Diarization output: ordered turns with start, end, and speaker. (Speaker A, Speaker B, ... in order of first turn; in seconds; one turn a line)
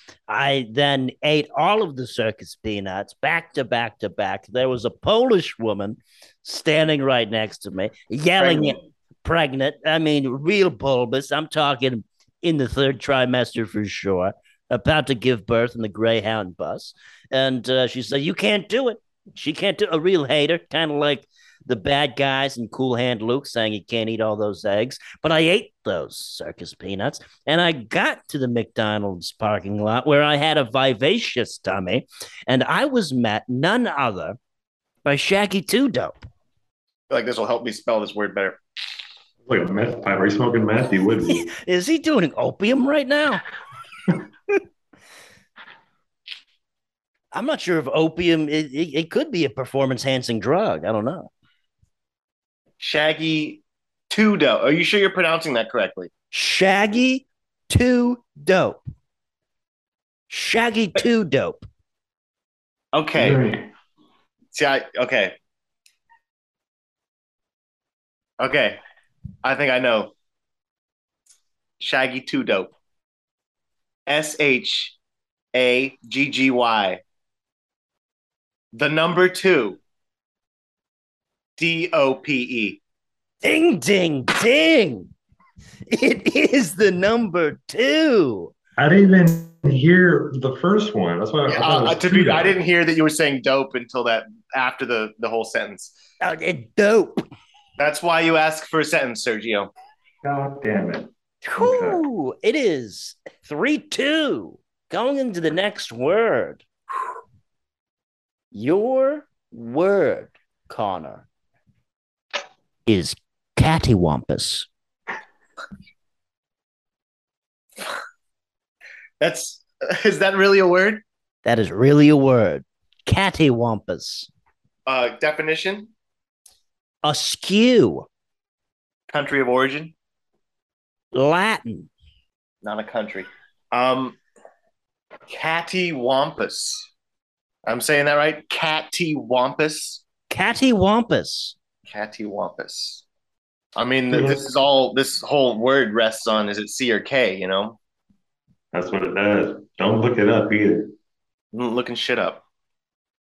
Speaker A: 0.3-34.4
Speaker B: 8.4-8.7
Speaker A: 35.0-36.2
Speaker B: 37.1-38.6
Speaker C: 39.5-41.5
Speaker A: 41.3-43.4
Speaker A: 47.3-51.3
Speaker B: 52.8-56.1
Speaker A: 56.3-58.8
Speaker A: 60.3-61.6
Speaker B: 62.9-63.4
Speaker C: 63.1-63.7
Speaker B: 64.5-65.3
Speaker B: 68.4-68.8
Speaker B: 69.4-70.1
Speaker B: 71.8-72.7
Speaker B: 74.1-74.9
Speaker B: 75.5-77.0
Speaker B: 78.7-79.8
Speaker B: 81.6-82.8
Speaker A: 83.4-85.1
Speaker A: 85.9-88.5
Speaker C: 88.8-92.6
Speaker B: 91.5-96.0
Speaker A: 96.2-97.2
Speaker B: 97.8-99.7
Speaker C: 100.2-102.0
Speaker A: 101.4-106.6
Speaker A: 108.5-111.3
Speaker A: 112.8-114.7
Speaker B: 119.2-121.0
Speaker A: 121.4-124.3
Speaker B: 124.8-125.9
Speaker A: 127.0-128.1
Speaker B: 129.1-129.9
Speaker A: 131.1-131.9
Speaker B: 132.6-134.2
Speaker B: 135.3-136.9
Speaker B: 137.6-140.0
Speaker A: 140.3-141.6
Speaker B: 141.9-143.0
Speaker B: 143.8-147.8
Speaker C: 144.1-144.4
Speaker C: 148.7-150.9
Speaker B: 151.5-152.4